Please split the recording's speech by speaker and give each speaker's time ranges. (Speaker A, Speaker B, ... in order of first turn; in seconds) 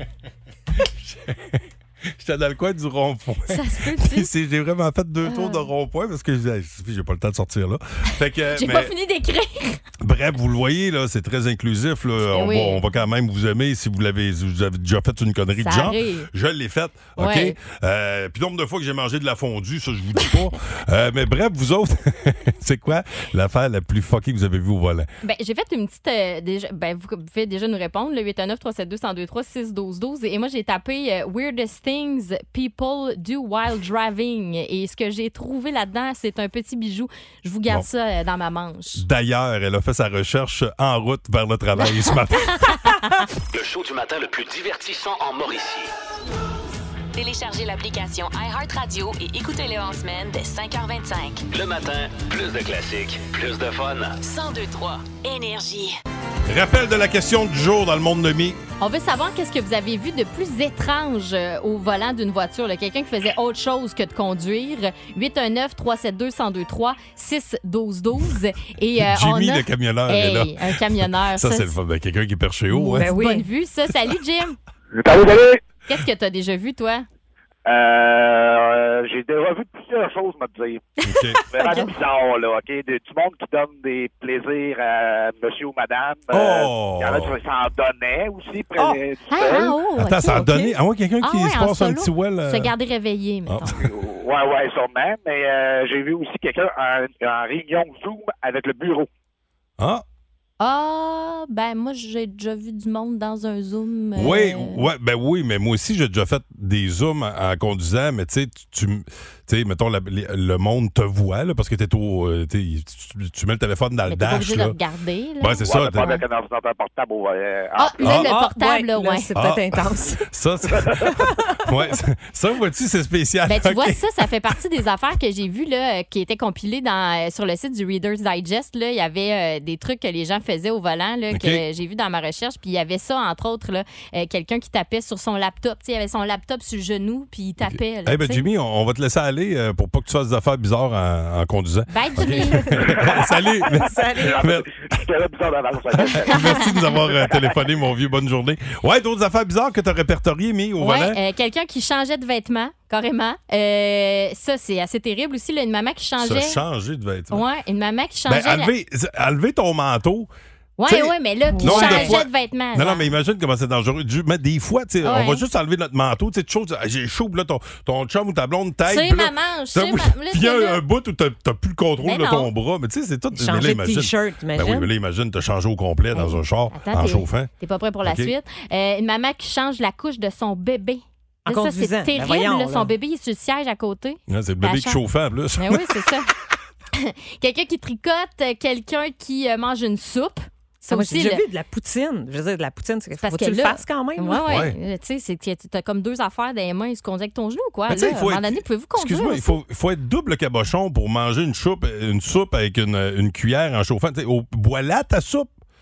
Speaker A: 0.8-8.9, 10.0-25.1, 39.0-42.7, 56.5-58.6, 69.0-73.1, 81.0-81.4, 86.3-87.4, 90.0-92.7, 93.5-93.9, 99.8-100.0, 104.2-114.8, 115.4-116.1, 118.0-118.3, 119.3-124.5, 131.3-131.6, 137.7-145.0, 146.0-151.2, 156.2-157.4, 158.3-160.3, 160.8-177.5, 178.0-178.3, 184.3-186.1, 194.5-194.8, 197.9-205.5
Speaker B: 3.5-4.3, 5.2-5.7, 8.5-9.8, 12.3-12.8, 15.6-16.3, 17.2-17.6, 25.2-39.0, 42.6-43.2, 58.8-71.8, 72.7-74.6, 75.9-77.0, 81.6-81.9, 89.3-90.6, 91.2-93.8, 100.6-104.9, 114.1-116.2, 117.8-119.3, 123.5-138.4, 141.9-142.8, 146.3-146.6, 150.8-156.6, 157.3-158.7, 160.8-163.1, 165.0-165.4, 168.8-170.8, 172.0-172.5, 176.1-185.0, 185.6-186.3, 186.9-191.4, 193.2-199.6
Speaker C: 43.5-45.9, 51.5-54.2
Speaker D: 47.1-51.4, 54.2-56.0
Speaker E: 72.9-73.5, 88.8-89.6, 90.3-90.7, 118.2-120.3, 121.0-121.6, 143.6-144.5, 161.6-162.2, 173.3-174.9, 181.4-182.9, 190.9-194.6
Speaker F: 74.9-75.6, 77.7-80.9, 81.5-89.7, 93.7-99.1, 115.6-118.2, 143.1-147.5